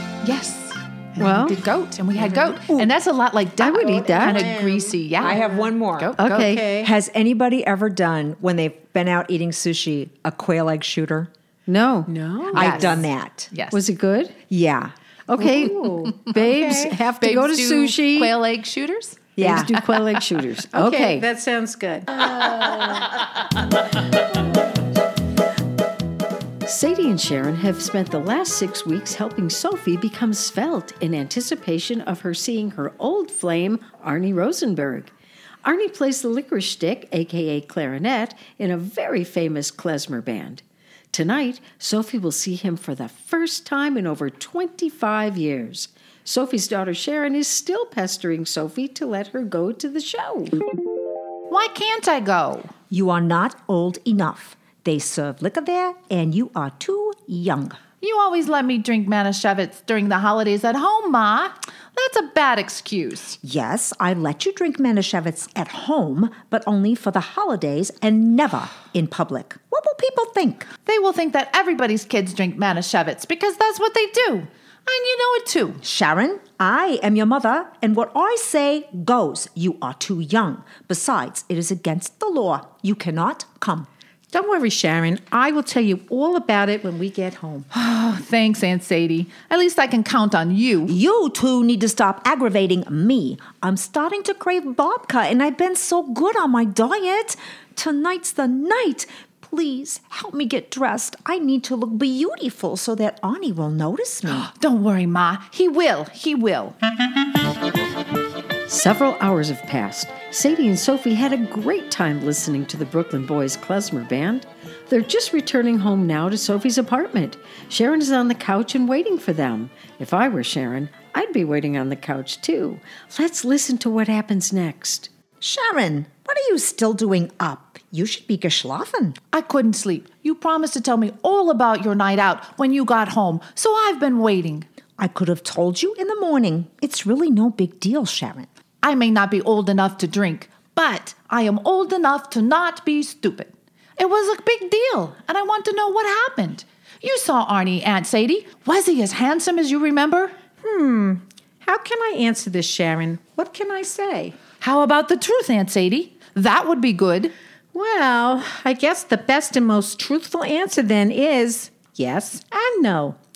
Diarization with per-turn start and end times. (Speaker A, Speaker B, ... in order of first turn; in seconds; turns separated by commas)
Speaker A: 0.2-6.5, Speaker B: 1.2-1.6, Speaker B: 3.6-4.5, Speaker C: 3.7-5.7, Speaker D: 5.2-6.2, Speaker B: 6.2-6.7, Speaker C: 6.3-6.9, Speaker D: 6.8-11.3, Speaker B: 11.7-12.1, Speaker C: 12.1-13.0, Speaker D: 12.5-13.5, Speaker A: 12.5-13.8, Speaker B: 13.7-14.4, Speaker D: 14.5-14.9, Speaker B: 15.3-18.3, Speaker C: 15.3-17.0, Speaker A: 17.0-19.3, Speaker D: 19.4-19.7, Speaker B: 19.4-21.2, Speaker C: 20.7-22.1, Speaker A: 22.5-22.8, Speaker B: 26.6-35.1, Speaker B: 35.6-50.6, Speaker A: 51.5-52.7, Speaker D: 52.9-57.8, Speaker A: 58.0-63.4, Speaker D: 63.4-70.7, Speaker A: 70.8-75.8, Speaker D: 75.8-83.9, Speaker C: 84.3-87.7, Speaker A: 87.7-91.0, Speaker D: 90.9-104.5, Speaker A: 104.3-106.8, Speaker B: 108.7-125.1, Speaker D: 125.4-129.2, Speaker A: 129.3-134.7, Speaker D: 135.0-138.5, Speaker A: 138.8-150.3, Speaker C: 150.6-154.4, Speaker A: 154.6-157.3, Speaker C: 157.7-163.2